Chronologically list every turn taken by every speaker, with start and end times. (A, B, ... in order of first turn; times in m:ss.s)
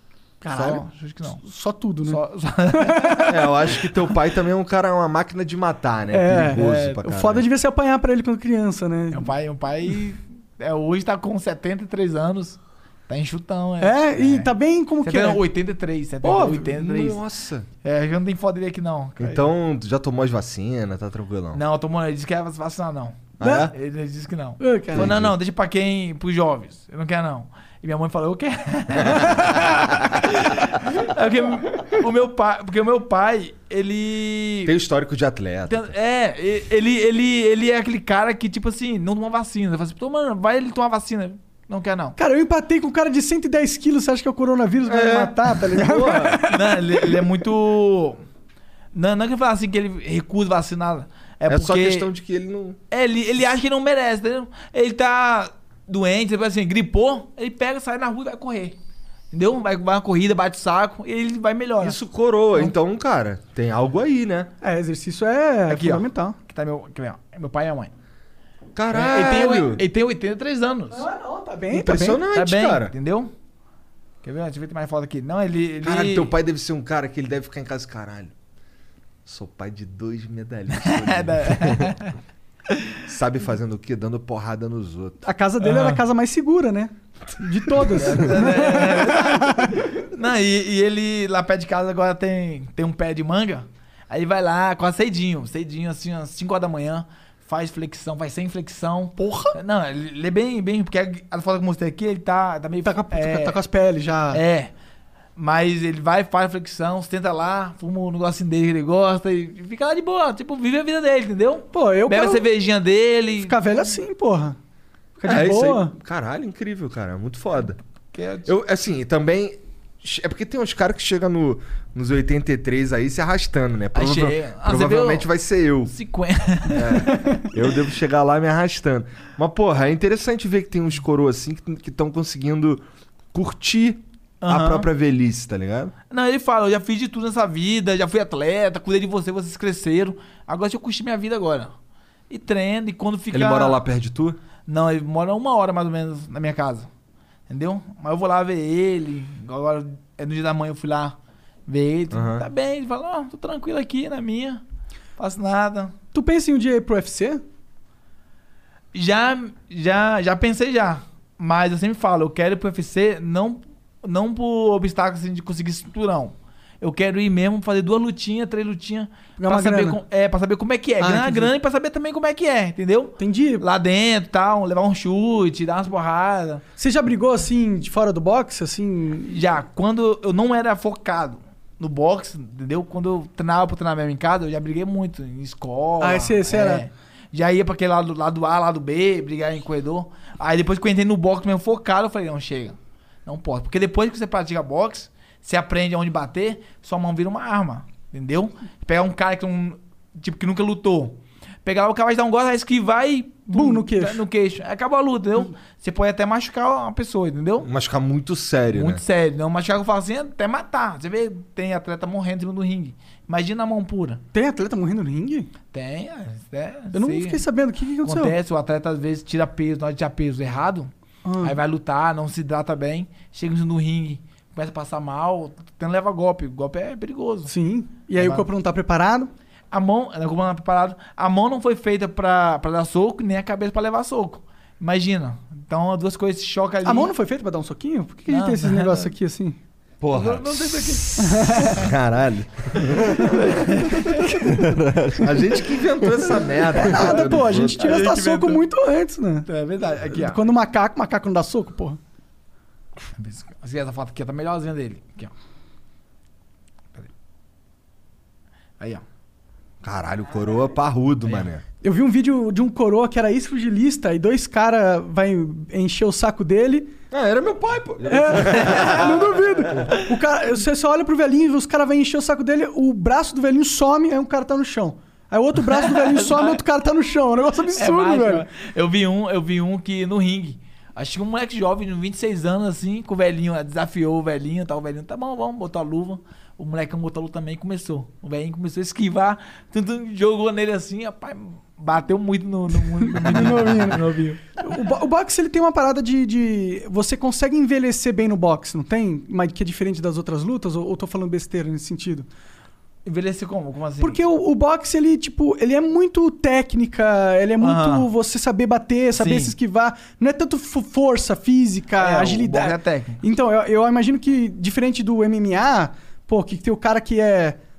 0:00.4-0:02.2 A
0:00.5-0:01.4 B
0:02.1-0:03.3 B
0:02.7-0:03.4 A
0:03.3-0:07.4 C
0:06.1-0:09.3 A
0:06.6-0:07.0 B
0:09.1-0:14.5 B
0:13.8-0:15.4 A
0:15.0-0:17.2 B
0:16.2-0:16.6 A
0:16.2-0:17.7 C
0:17.8-0:19.5 B
0:19.2-0:21.6 C
0:21.5-0:34.7 B
0:23.4-0:23.7 C
0:23.4-0:23.7 A
0:24.6-0:25.1 A
0:24.9-0:25.3 C
0:34.7-0:35.9 C
0:35.7-0:42.2 B
0:42.2-0:47.2 A
0:44.9-0:46.4 C
0:46.5-0:48.2 B
0:48.9-0:52.1 B
0:51.5-0:52.8 C
0:52.9-0:58.8 B
0:59.3-1:02.0 B
1:01.8-1:04.5 C
1:04.6-1:06.4 A
1:05.7-1:07.9 B
1:08.8-1:09.8 C
1:08.9-1:11.0 B
1:10.9-1:12.2 A
1:11.7-1:12.9 C
1:12.3-1:13.3 B
1:14.2-1:16.3 B
1:15.8-1:18.3 C
1:19.3-1:22.0 C
1:20.7-1:22.2 B
1:22.7-1:23.0 B
1:23.1-1:25.2 C
1:25.2-1:29.8 A
1:25.6-1:26.0 B
1:27.9-1:43.6 B
1:39.2-1:39.6 A
1:42.8-1:44.4 A
1:44.3-1:44.7 B
1:45.4-1:53.6 B
1:51.7-1:52.4 A
1:53.4-1:54.6 A
1:55.2-1:55.9 A
1:55.3-1:57.8 C
1:58.1-1:58.5 B
1:58.5-2:05.9 C
2:03.9-2:05.3 B
2:05.8-2:07.1 B
2:06.7-2:15.9 C
2:14.4-2:14.9 B
2:16.1-2:21.7 B
2:22.3-2:23.8 B
2:23.3-2:24.4 C
2:24.7-2:26.9 B
2:27.5-2:31.2 B
2:31.7-2:34.6 B
2:32.1-2:32.5 C
2:35.2-2:35.9 B
2:36.1-2:37.4 A
2:38.9-2:56.6 B
2:49.4-2:50.0 A
2:51.0-2:51.5 A
2:53.2-2:53.6 A
2:56.8-2:59.4 A
2:59.3-3:27.7 B
3:06.0-3:06.9 A
3:23.5-3:24.2 A
3:27.6-3:29.0 C
3:28.7-3:34.2 B
3:34.3-3:35.5 A
3:35.7-3:37.4 B
3:36.9-3:38.3 A
3:38.0-3:40.9 B
3:41.2-3:41.6 A
3:41.4-3:47.5 B
3:47.5-3:49.3 A
3:48.2-3:48.5 B
3:49.7-3:57.1 B
3:56.8-3:59.6 A
3:58.3-3:59.1 B
4:00.0-4:03.3 C
4:00.1-4:01.9 B
4:01.2-4:01.7 A
4:02.8-4:04.5 B
4:04.2-4:08.1 C
4:06.7-4:09.5 A
4:07.0-4:08.6 B
4:09.5-4:10.4 B
4:10.1-4:12.0 A
4:13.2-4:15.3 B
4:19.8-4:21.6 C
4:21.8-4:26.9 A
4:27.1-4:29.9 C
4:28.1-4:38.4 A
4:28.5-4:29.1 B
4:35.7-4:36.6 B
4:37.8-4:54.4 B
4:53.1-4:54.0 A
4:54.6-5:02.3 A
5:03.1-5:04.2 B
5:04.0-5:17.6 A
5:07.6-5:08.1 B
5:09.2-5:09.6 B
5:12.0-5:13.2 B